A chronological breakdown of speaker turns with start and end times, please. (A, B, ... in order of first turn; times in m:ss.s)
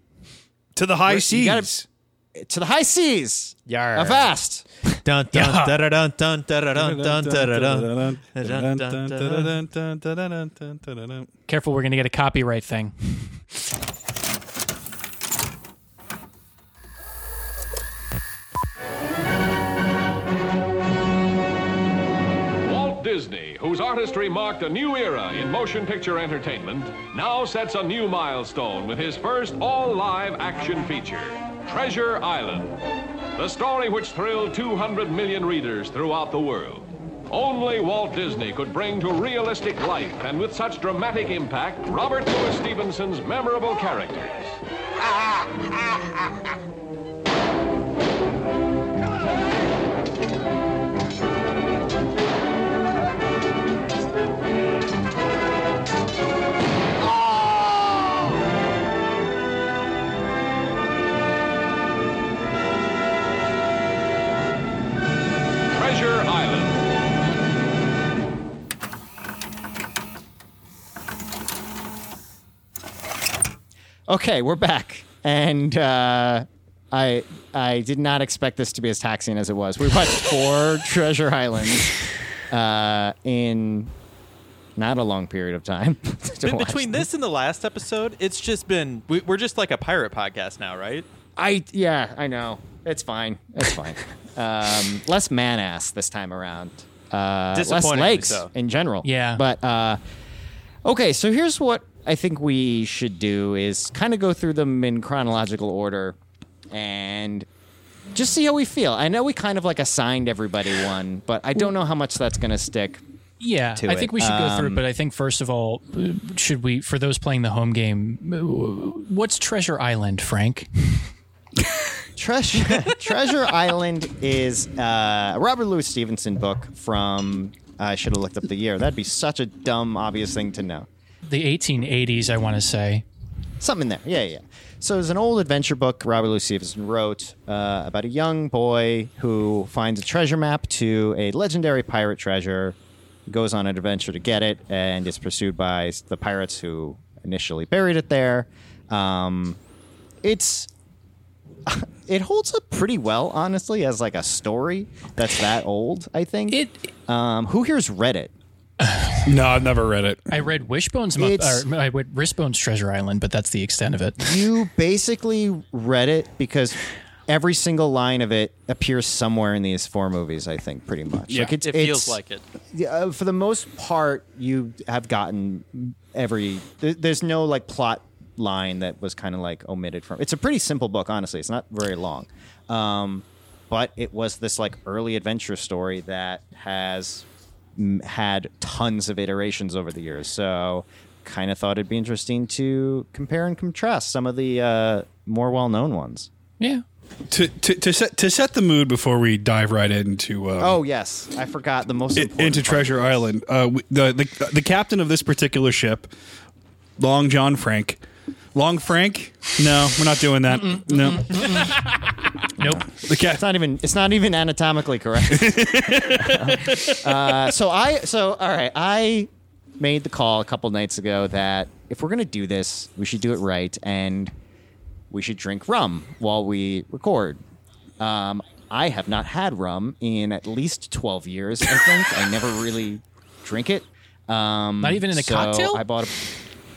0:00.8-0:01.8 A
0:01.1-0:04.7 B
0:03.7-0:04.3 C
0:04.8-0:09.5 C
0:05.3-0:05.7 D
0:06.7-0:11.3 A
0:11.5-0:13.4 D
0:22.6-0:32.8 E
0:33.4-0:44.6 E
1:05.7-1:06.8 E
1:14.1-1:22.0 B
1:22.5-1:23.9 B
1:24.8-1:27.1 B
1:26.4-1:31.1 C
1:31.4-1:40.0 B
1:37.5-1:38.5 C
1:39.0-1:39.4 D
1:40.8-1:46.2 B
1:46.7-1:47.5 B
1:48.1-1:53.0 B
1:53.4-2:01.0 D
1:53.8-1:54.8 B
2:02.2-2:10.9 B
2:11.3-2:13.0 D
2:13.6-2:22.8 B
2:23.3-2:29.6 B
2:30.2-2:30.7 B
2:31.7-2:38.3 B
2:36.5-2:36.9 D
2:38.8-2:39.3 D
2:39.3-2:40.3 A
2:40.3-2:44.4 D
2:41.2-2:41.7 B
2:44.2-2:52.2 B
2:51.3-2:51.5 A
2:51.6-2:52.4 C
2:52.7-3:16.3 B
3:17.3-3:20.8 A
3:20.6-3:23.2 B
3:22.2-3:26.1 A
3:27.0-3:28.0 A
3:28.5-3:31.7 A
3:30.7-3:31.8 D
3:31.4-3:31.7 B
3:32.9-3:33.4 A
3:33.3-3:44.3 B
3:35.3-3:37.0 A
3:45.1-3:47.4 B
3:48.0-3:56.1 B
3:54.8-3:55.8 D